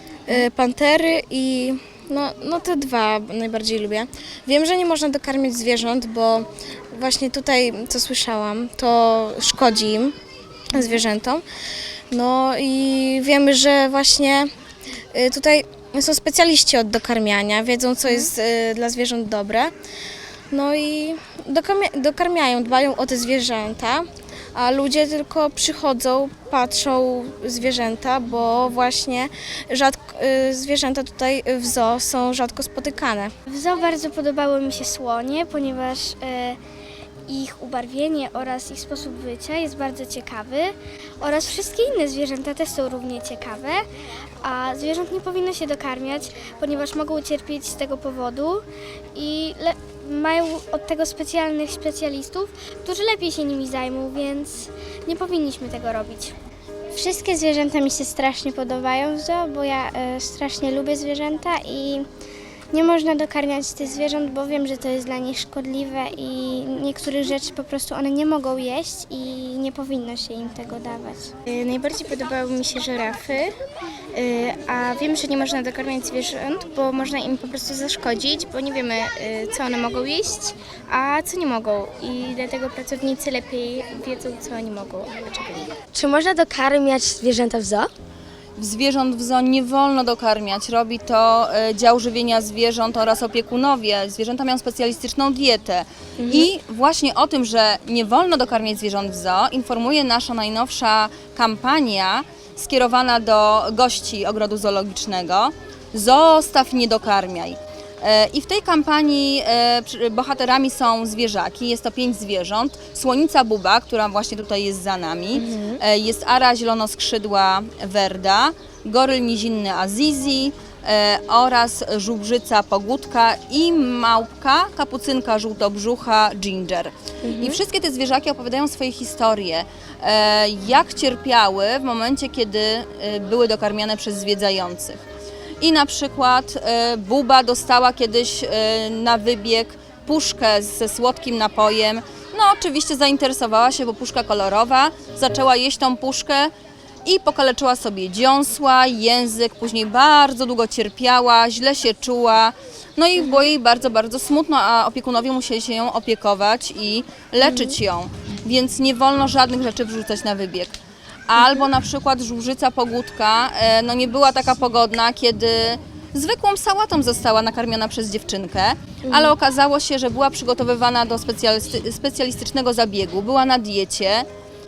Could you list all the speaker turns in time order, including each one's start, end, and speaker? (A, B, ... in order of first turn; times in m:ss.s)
0:00.2-0:10.1 A
0:10.7-0:11.4 A
0:12.1-0:14.5 A
0:15.1-0:19.7 A
0:20.5-0:33.3 A
0:33.5-0:36.6 B
0:37.3-0:43.8 B
0:44.4-0:48.6 B
0:49.1-0:56.3 B
0:56.9-1:02.0 B
1:02.7-1:11.3 B
1:11.4-1:13.5 C
1:14.1-1:25.7 C
1:25.9-1:27.9 D
1:28.6-2:15.0 E
1:36.2-1:36.5 D
1:55.3-1:55.8 D
2:07.2-2:07.6 D
2:15.6-2:26.5 E
2:27.0-2:40.8 E
2:37.4-2:37.7 D
2:41.3-2:54.3 E
2:49.1-2:49.3 D